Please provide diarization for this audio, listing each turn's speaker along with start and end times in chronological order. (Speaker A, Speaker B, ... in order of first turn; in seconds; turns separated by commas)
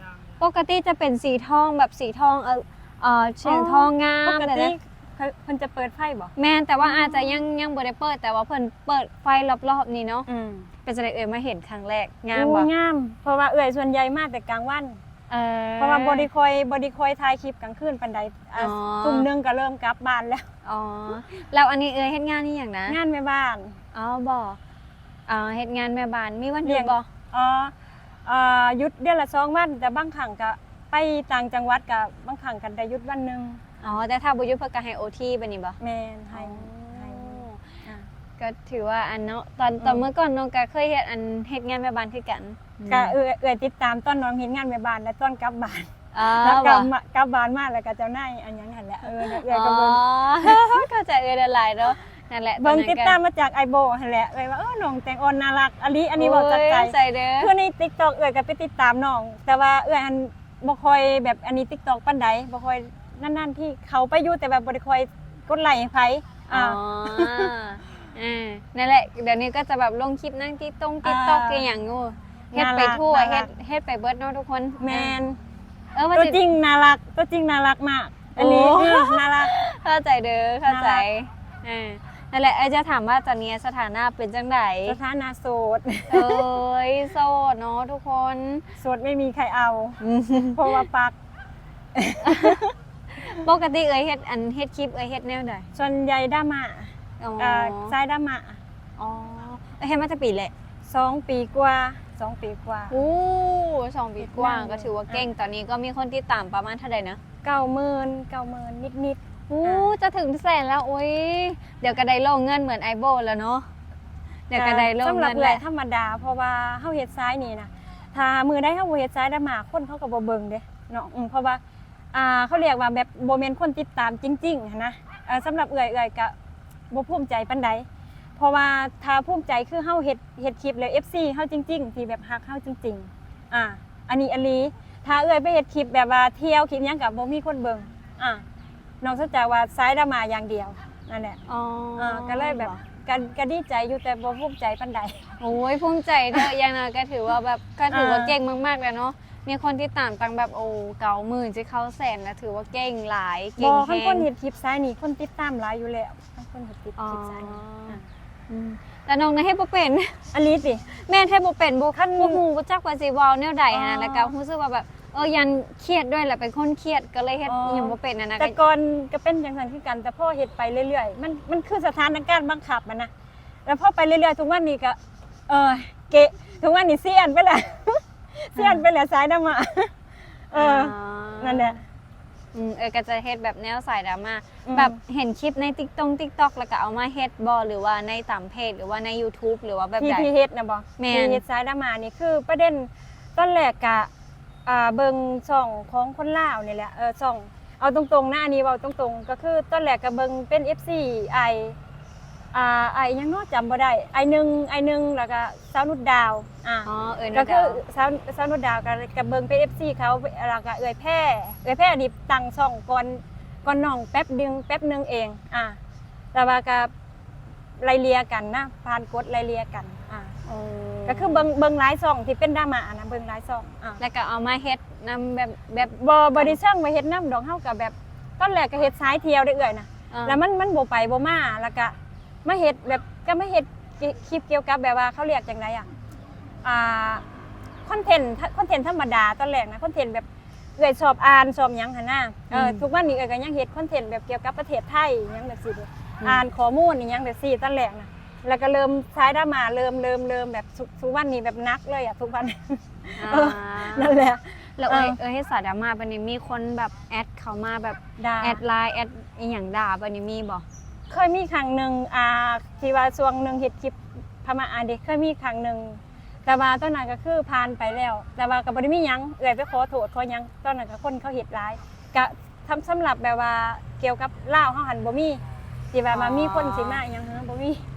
Speaker A: 0.4-4.7, Speaker B: 3.4-7.4, Speaker A: 6.4-10.3, Speaker B: 10.3-10.7, Speaker A: 10.8-12.7, Speaker B: 12.3-15.0, Speaker A: 15.3-16.3, Speaker B: 15.8-20.5, Speaker A: 18.6-19.3, Speaker A: 20.6-23.0, Speaker B: 22.9-23.8, Speaker A: 23.9-24.6, Speaker A: 25.3-27.1, Speaker B: 26.6-27.7, Speaker B: 28.2-33.6, Speaker A: 33.8-35.8, Speaker B: 35.8-38.1, Speaker A: 36.3-37.6, Speaker A: 38.4-43.1, Speaker B: 39.8-40.1, Speaker B: 42.9-50.9, Speaker A: 46.1-46.9, Speaker A: 49.2-53.2, Speaker B: 52.6-67.5, Speaker A: 56.2-57.5, Speaker A: 66.5-75.2, Speaker B: 71.0-71.7, Speaker B: 72.5-73.5, Speaker B: 74.8-75.4, Speaker A: 75.9-76.4, Speaker B: 76.1-79.6, Speaker A: 78.4-85.0, Speaker B: 80.7-81.1, Speaker B: 84.8-86.5, Speaker A: 86.1-88.7, Speaker B: 88.8-91.2, Speaker A: 90.0-90.8, Speaker B: 92.0-92.6, Speaker A: 92.2-95.7, Speaker B: 95.7-98.6, Speaker A: 97.2-98.0, Speaker A: 99.0-100.5, Speaker B: 100.9-103.0, Speaker A: 102.9-107.2, Speaker B: 104.2-105.3, Speaker B: 107.4-109.9, Speaker A: 109.5-113.7, Speaker A: 114.5-115.6, Speaker B: 114.5-121.6, Speaker B: 122.1-126.3, Speaker B: 126.9-127.9, Speaker B: 128.4-138.4, Speaker B: 139.0-141.4, Speaker A: 141.5-142.8, Speaker B: 142.0-145.4, Speaker A: 145.4-154.3, Speaker B: 147.9-148.3, Speaker B: 153.6-158.0, Speaker A: 157.0-160.2, Speaker B: 160.3-160.8, Speaker A: 160.8-168.6, Speaker B: 161.9-162.4, Speaker B: 163.7-164.3, Speaker B: 167.4-173.1, Speaker B: 173.7-179.9, Speaker A: 178.6-178.9, Speaker B: 180.5-181.8, Speaker A: 180.5-181.8, Speaker A: 182.5-190.3, Speaker B: 184.7-185.0, Speaker B: 190.0-194.1, Speaker A: 191.0-191.4, Speaker B: 194.7-201.8, Speaker B: 202.5-215.8, Speaker A: 206.8-207.8, Speaker B: 216.3-216.9, Speaker B: 217.8-220.4, Speaker A: 220.5-221.5, Speaker B: 221.1-224.0, Speaker A: 224.0-226.6, Speaker B: 225.8-235.9, Speaker A: 230.1-230.4, Speaker B: 236.6-237.2, Speaker B: 237.8-240.3, Speaker B: 240.8-255.2, Speaker A: 242.5-242.8, Speaker A: 253.2-260.6, Speaker B: 258.2-258.6, Speaker B: 261.1-277.9, Speaker A: 276.1-277.0